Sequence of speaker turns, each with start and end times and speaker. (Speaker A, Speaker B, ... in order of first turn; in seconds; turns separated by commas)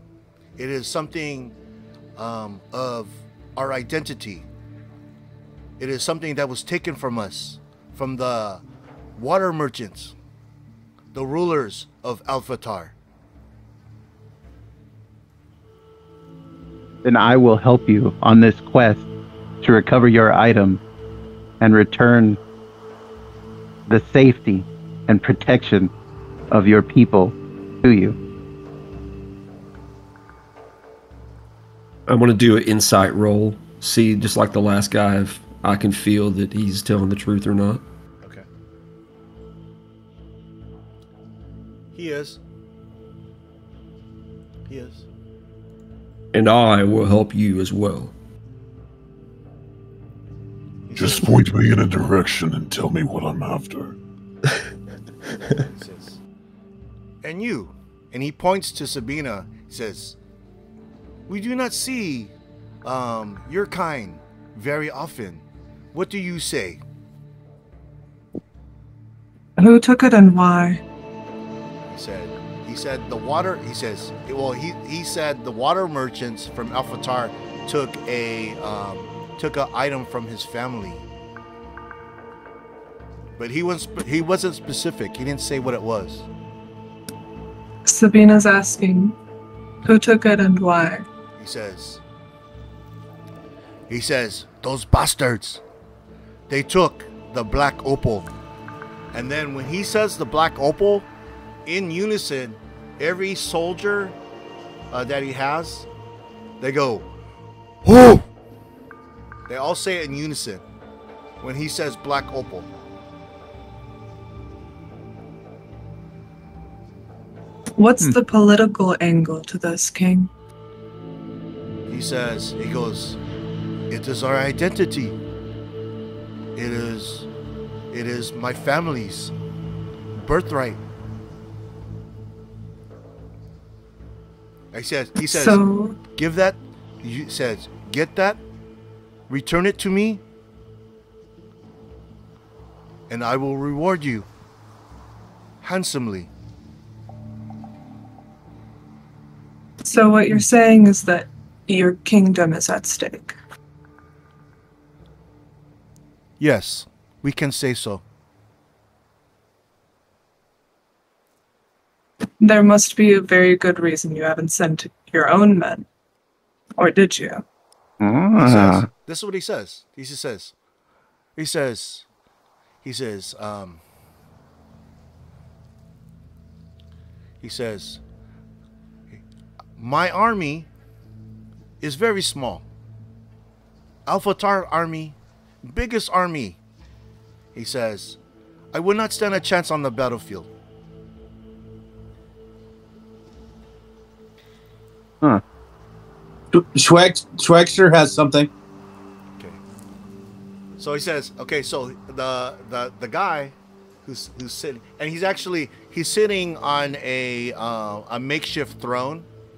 Speaker A: 0.6-1.6, Speaker A: 2.2-4.5, Speaker A: 5.8-8.6, Speaker A: 9.2-10.2, Speaker A: 11.1-12.9, Speaker B: 17.0-19.1, Speaker B: 19.6-20.8, Speaker B: 21.6-22.4, Speaker B: 23.9-25.9, Speaker B: 26.5-28.2, Speaker C: 32.1-37.8, Speaker A: 41.9-42.4, Speaker A: 44.7-45.0, Speaker C: 46.3-48.1, Speaker A: 50.9-51.5, Speaker D: 51.0-54.0, Speaker A: 55.4-56.2, Speaker A: 57.2-60.2, Speaker A: 61.3-62.3, Speaker A: 62.8-66.8, Speaker E: 69.6-70.8, Speaker A: 71.9-81.1, Speaker A: 83.4-86.3, Speaker E: 87.8-89.2, Speaker E: 89.8-91.1, Speaker A: 91.4-92.0, Speaker A: 93.9-95.6, Speaker A: 96.5-98.3, Speaker A: 99.1-101.1, Speaker A: 101.7-104.2, Speaker A: 104.9-105.9, Speaker A: 106.6-107.1, Speaker A: 107.8-108.2, Speaker A: 109.5-110.6, Speaker A: 111.4-112.7, Speaker E: 117.8-120.3, Speaker A: 121.9-123.2, Speaker A: 123.9-125.2, Speaker A: 126.6-127.3, Speaker A: 127.9-129.3, Speaker A: 130.2-130.8, Speaker A: 134.7-138.4, Speaker E: 135.2-136.0, Speaker A: 139.3-140.2, Speaker A: 143.1-144.3, Speaker A: 145.6-146.3, Speaker E: 149.9-153.4, Speaker A: 156.4-158.0, Speaker E: 162.4-165.9, Speaker E: 166.8-167.4, Speaker B: 168.0-168.9, Speaker A: 168.4-170.5, Speaker A: 171.4-172.1, Speaker A: 172.8-173.8, Speaker A: 177.4-178.0, Speaker A: 179.8-180.7, Speaker A: 181.8-182.7, Speaker A: 184.1-186.6, Speaker A: 187.6-188.2, Speaker A: 188.7-190.5, Speaker F: 196.5-198.5, Speaker A: 200.8-209.3